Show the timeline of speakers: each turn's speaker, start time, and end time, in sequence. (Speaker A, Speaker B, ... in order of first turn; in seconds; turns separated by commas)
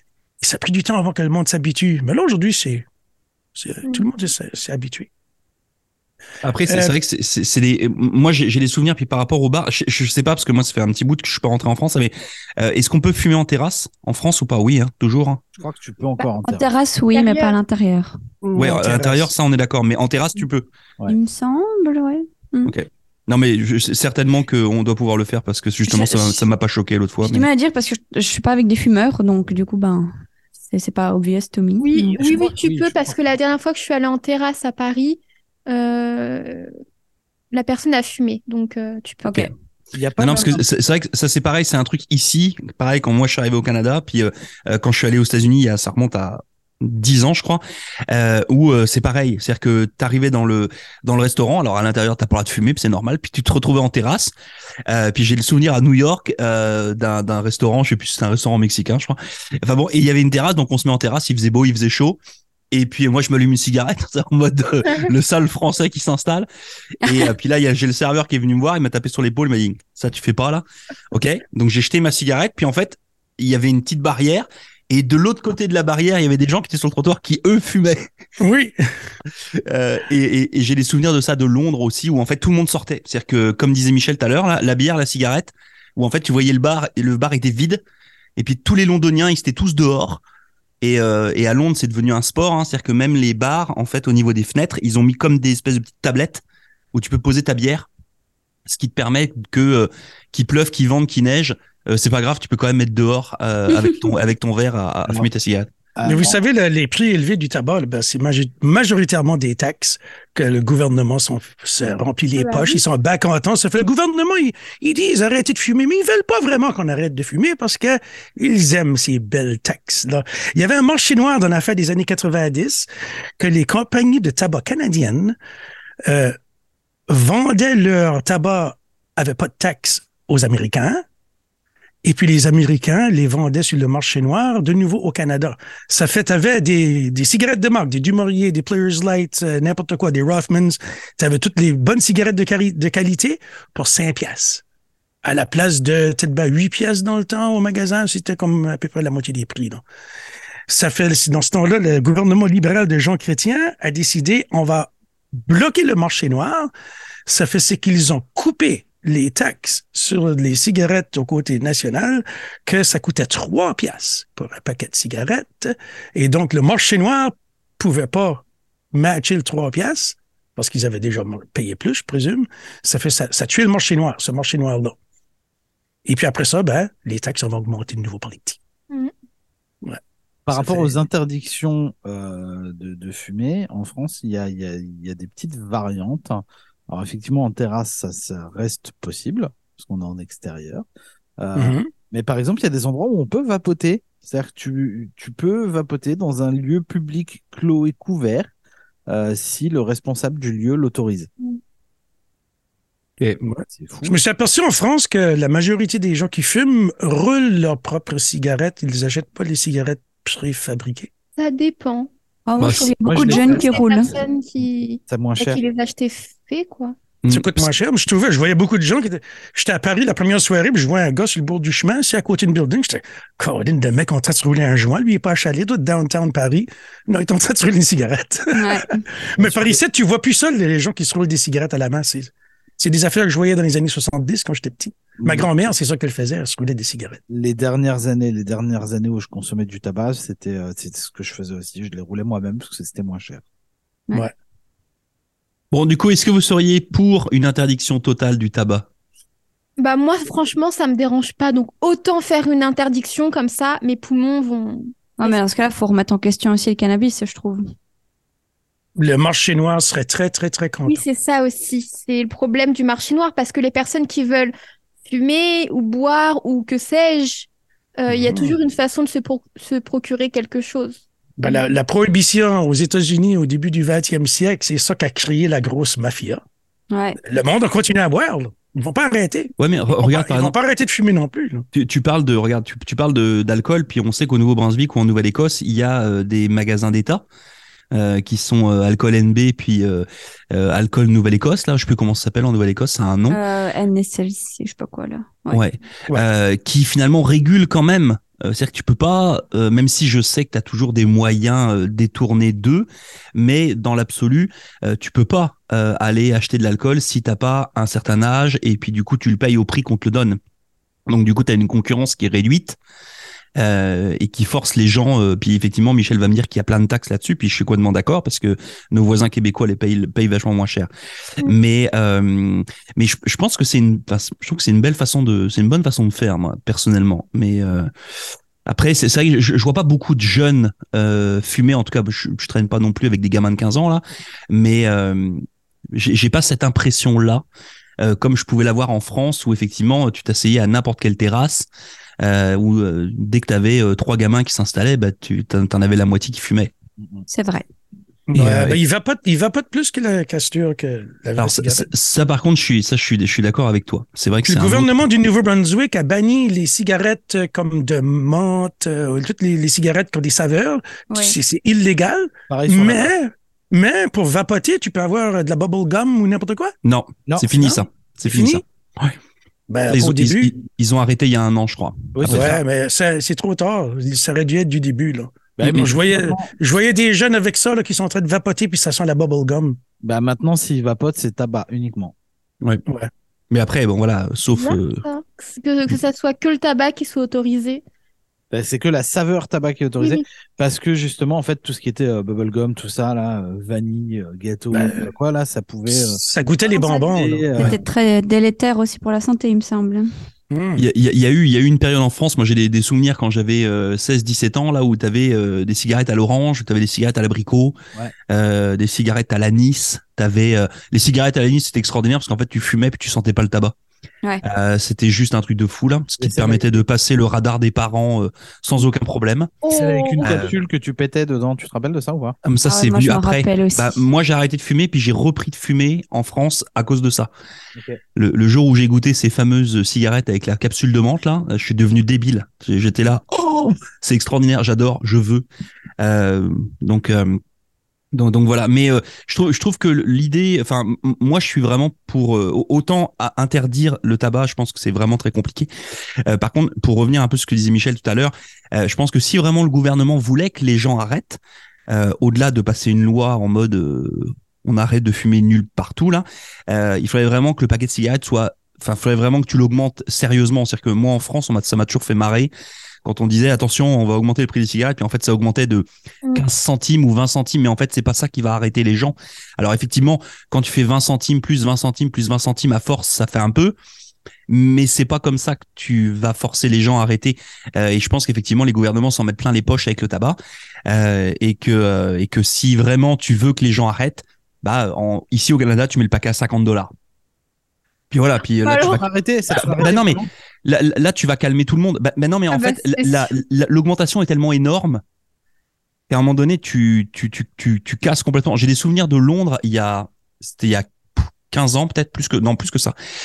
Speaker A: 0.4-2.9, Speaker A: 3.6-5.1, Speaker B: 6.4-15.4, Speaker A: 6.7-7.0, Speaker C: 15.6-16.7, Speaker D: 16.4-18.2, Speaker E: 17.1-17.6, Speaker A: 18.4-19.3, Speaker B: 18.6-20.7, Speaker D: 21.1-22.7, Speaker B: 22.6-27.5, Speaker D: 25.9-26.5, Speaker D: 27.2-30.1, Speaker D: 30.7-32.5, Speaker E: 31.8-36.7, Speaker A: 32.2-33.0, Speaker E: 37.5-39.5, Speaker D: 39.2-39.5, Speaker A: 39.9-40.6, Speaker B: 40.2-54.3, Speaker B: 54.9-62.2, Speaker B: 62.7-66.5, Speaker B: 67.0-78.1, Speaker D: 67.0-67.3, Speaker A: 78.4-78.8, Speaker B: 79.7-87.8, Speaker B: 88.4-90.2, Speaker B: 90.8-97.9, Speaker B: 98.7-105.7, Speaker C: 106.0-106.4, Speaker A: 106.0-122.9, Speaker E: 112.4-112.8, Speaker A: 123.4-125.4, Speaker A: 126.1-126.4, Speaker A: 127.1-131.0, Speaker A: 132.0-144.6, Speaker A: 145.2-149.8, Speaker A: 150.7-154.9, Speaker A: 155.5-156.7, Speaker A: 157.3-174.9, Speaker A: 176.1-178.6, Speaker C: 180.5-190.8, Speaker A: 180.5-180.9, Speaker C: 191.4-198.5, Speaker A: 191.6-191.9, Speaker C: 199.1-201.3, Speaker A: 203.4-211.1, Speaker C: 203.7-204.2, Speaker E: 211.4-212.1, Speaker D: 212.5-214.1, Speaker B: 212.6-212.9, Speaker C: 213.1-213.8, Speaker E: 213.2-216.9, Speaker C: 215.1-215.6, Speaker B: 217.2-217.8, Speaker A: 217.3-237.2, Speaker D: 228.5-229.0, Speaker C: 229.4-229.8, Speaker C: 235.2-235.5, Speaker C: 237.3-243.4, Speaker B: 245.7-248.9, Speaker E: 249.8-255.4, Speaker D: 255.2-257.6, Speaker A: 259.0-261.0, Speaker E: 260.9-264.5, Speaker E: 265.1-271.6, Speaker A: 271.4-276.4, Speaker D: 276.9-277.2, Speaker A: 277.2-281.7, Speaker B: 279.6-280.5, Speaker B: 281.7-287.2, Speaker B: 287.9-293.4, Speaker D: 293.3-295.6, Speaker B: 295.5-310.4, Speaker B: 311.1-312.8, Speaker B: 313.6-320.9, Speaker B: 321.4-327.9, Speaker B: 328.7-337.4, Speaker B: 338.0-341.7, Speaker B: 342.2-346.7, Speaker C: 347.0-347.3, Speaker D: 347.3-347.6, Speaker A: 348.3-351.9, Speaker B: 348.3-348.8, Speaker B: 351.4-355.0, Speaker A: 354.5-366.7, Speaker D: 361.1-361.4, Speaker C: 362.5-363.1, Speaker B: 366.8-369.1, Speaker C: 367.3-367.8, Speaker A: 368.3-368.6, Speaker A: 369.7-370.5, Speaker B: 369.9-372.6, Speaker C: 372.1-372.5, Speaker A: 372.3-379.8, Speaker C: 375.6-376.5, Speaker C: 380.0-382.1, Speaker B: 383.5-385.0, Speaker E: 384.5-387.8, Speaker C: 388.5-396.2, Speaker E: 390.0-390.2, Speaker A: 394.7-395.1, Speaker A: 395.9-397.8, Speaker E: 396.7-397.1, Speaker C: 397.1-397.8, Speaker D: 397.6-400.1, Speaker A: 400.5-400.9, Speaker B: 400.8-407.8, Speaker B: 408.3-413.8, Speaker B: 414.4-419.5, Speaker C: 416.2-416.8, Speaker E: 419.6-420.3, Speaker C: 419.7-422.4, Speaker B: 420.2-420.6, Speaker B: 422.4-427.3, Speaker D: 422.6-424.0, Speaker B: 428.2-435.4, Speaker B: 436.0-437.4, Speaker B: 438.1-445.7, Speaker B: 446.3-462.5, Speaker B: 463.0-473.8, Speaker B: 474.5-486.9, Speaker B: 488.1-495.0, Speaker E: 488.6-489.0, Speaker C: 488.9-490.3, Speaker E: 492.5-493.4, Speaker B: 496.1-502.9